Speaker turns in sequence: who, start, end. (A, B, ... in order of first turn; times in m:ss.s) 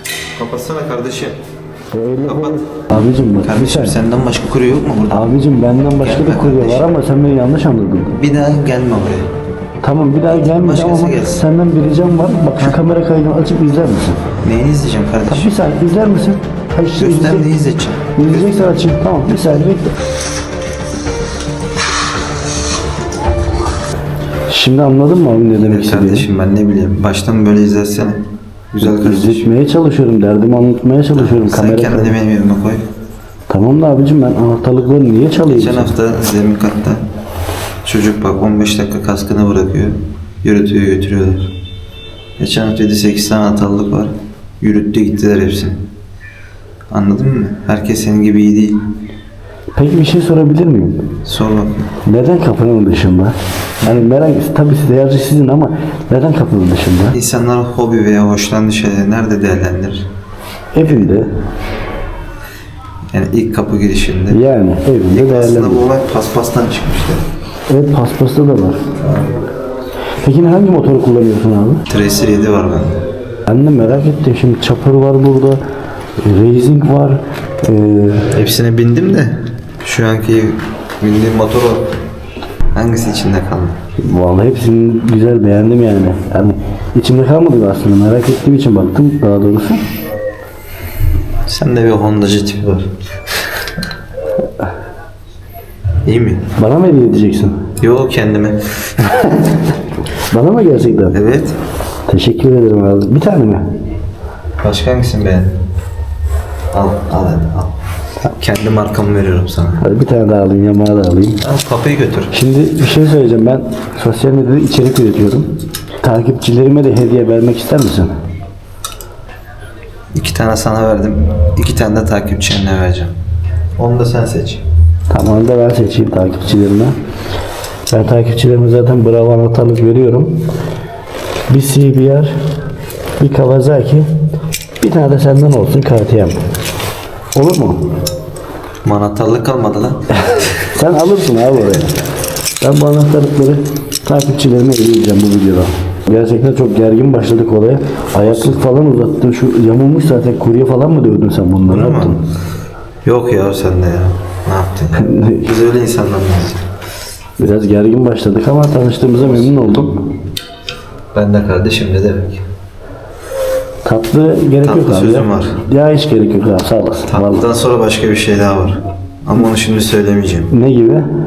0:00.4-0:01.4 A
0:01.9-0:04.0 B
0:02.2-0:02.6 A
0:03.4-0:05.2 A
0:05.1-0:08.2 B
0:06.0-0:06.9 A
0:08.1-0:09.3 A
0:09.8-0:14.2 B
0:10.3-0:11.5 A
0:14.4-0:15.5 A
0:15.3-0:17.5 B
0:16.9-0:18.6 A
0:18.2-0:19.9 B
0:24.5-0:26.3 B
0:25.6-0:28.2 A
0:28.7-0:29.5 A
0:28.8-0:32.1 B
0:31.1-0:32.8 A
0:33.5-0:35.9 B
0:35.5-0:37.0 A
0:37.8-0:41.5 A
0:42.4-0:45.8 A
0:46.9-0:48.8 A
0:49.7-0:51.1 B
0:51.2-0:51.9 A
0:52.0-0:57.1 B
0:53.8-0:54.1 A
0:57.1-1:00.0 A
1:00.7-1:01.3 B
1:00.8-1:01.2 A
1:03.1-1:04.4 A
1:04.3-1:05.8 B
1:05.1-1:07.2 A
1:07.7-1:08.8 B
1:09.0-1:09.3 A
1:10.2-1:11.8 B
1:11.9-1:13.0 A
1:13.5-1:15.6 B
1:16.2-1:18.3 B
1:18.3-1:21.8 A
1:22.7-1:23.8 A
1:24.0-1:29.8 B
1:31.5-1:32.9 A
1:36.0-1:36.4 A
1:36.6-1:37.6 B
1:37.8-1:38.6 A
1:39.1-1:39.6 B
1:40.3-1:41.2 B
1:41.1-1:41.6 A
1:42.1-1:43.6 B
1:44.6-1:45.5 A
1:46.7-1:47.7 A
1:48.3-1:49.8 A
1:49.8-1:51.4 B
1:51.4-1:52.3 A
1:52.3-1:55.5 B
1:56.0-1:58.1 B
2:00.1-2:03.1 A
2:03.8-2:04.6 A
2:05.1-2:06.9 B
2:07.9-2:10.4 B
2:11.5-2:12.3 B
2:13.2-2:14.1 B
2:14.8-2:16.4 B
2:17.3-2:17.8 B
2:18.8-2:20.0 A
2:20.2-2:22.0 B
2:22.6-2:32.2 B
2:28.2-2:28.6 A
2:31.6-2:32.2 A
2:33.0-2:36.6 A
2:34.9-2:35.5 B
2:37.4-2:40.0 B
2:39.2-2:39.8 A
2:41.1-2:42.4 A
2:43.8-2:47.4 B
2:44.6-2:45.6 A
2:47.1-2:50.5 A
2:50.5-2:51.0 B